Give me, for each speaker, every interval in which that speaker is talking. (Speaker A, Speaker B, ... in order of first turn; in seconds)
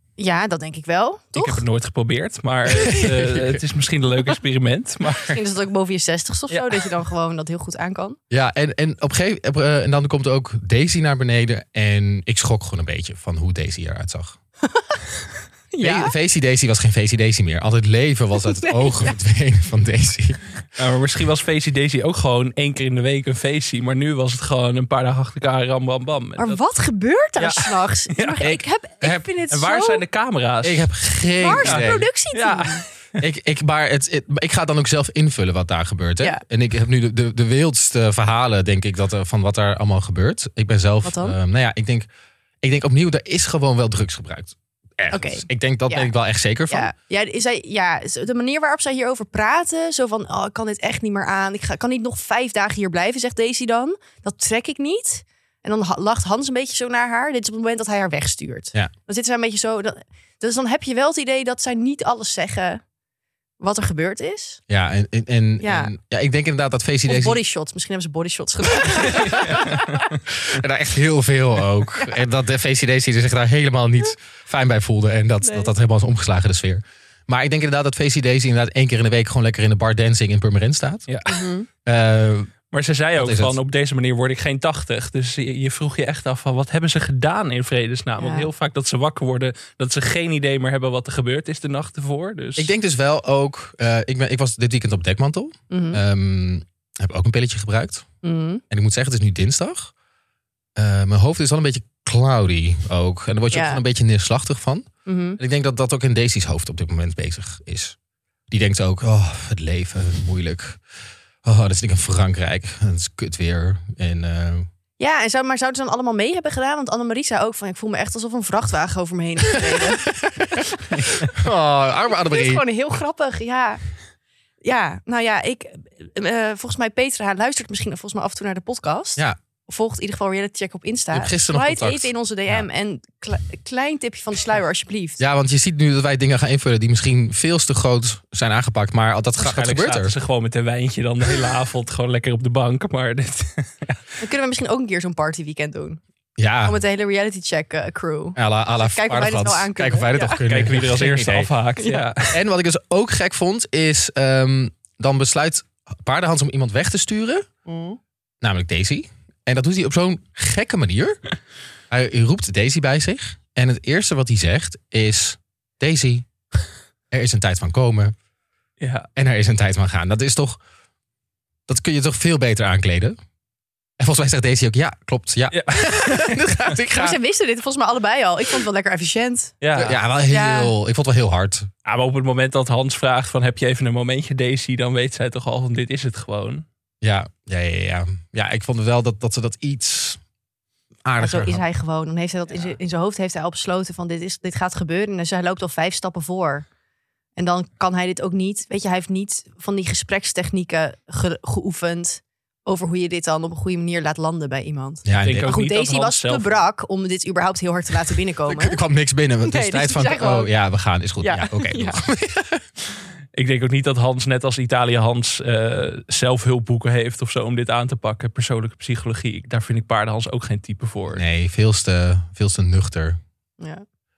Speaker A: 0.2-1.7, 5.3-8.2, 14.7-15.0, 15.7-16.1, 18.4-19.2, 26.4-30.0, 31.4-32.8, 41.0-41.4, 45.1-46.1, 46.7-62.8, 63.6-64.6, 65.6-65.9, 67.1-69.9, 75.4-75.7, 81.3-81.7, 88.2-88.5, 95.7-96.0, 98.2-98.6, 103.5-103.8, 105.1-105.4, 115.0-120.1, 122.1-123.8, 124.6-135.2, 144.2-146.0, 146.7-150.5, 151.8-152.1, 157.7-158.0, 176.9-179.6, 180.3-180.7, 191.2-196.7, 197.4-208.8, 209.4-210.5, 211.2-212.1, 223.6-223.8
Speaker B: 1.4-5.4, 6.5-6.9, 20.8-26.6, 27.4-28.5, 29.5-30.9, 31.6-33.2, 81.1-81.4, 82.7-92.7, 139.4-144.0, 150.4-152.4, 168.8-169.1, 175.5-176.4, 179.6-180.0, 181.8-186.7, 192.5-192.8, 205.2-206.6, 213.3-221.2
Speaker C: 2.7-3.6, 8.3-14.4, 15.8-20.4, 28.4-29.3, 30.6-32.1, 33.2-42.1, 42.6-46.9, 64.7-67.4, 68.8-69.9, 70.5-81.2, 81.9-82.5, 83.2-83.6, 92.6-98.1, 98.7-99.9, 100.8-104.9, 105.4-108.0, 108.5-110.8, 111.4-114.7, 120.1-120.7, 121.2-122.6, 131.1-132.7, 135.2-140.2, 146.4-146.8, 148.4-151.5, 152.3-157.4, 158.4-161.2, 161.9-166.3, 167.1-168.1, 169.2-170.6, 171.7-173.2, 174.0-177.2, 179.8-181.7, 187.0-190.2, 191.1-191.6, 205.1-205.5, 208.5-212.6, 221.1-223.2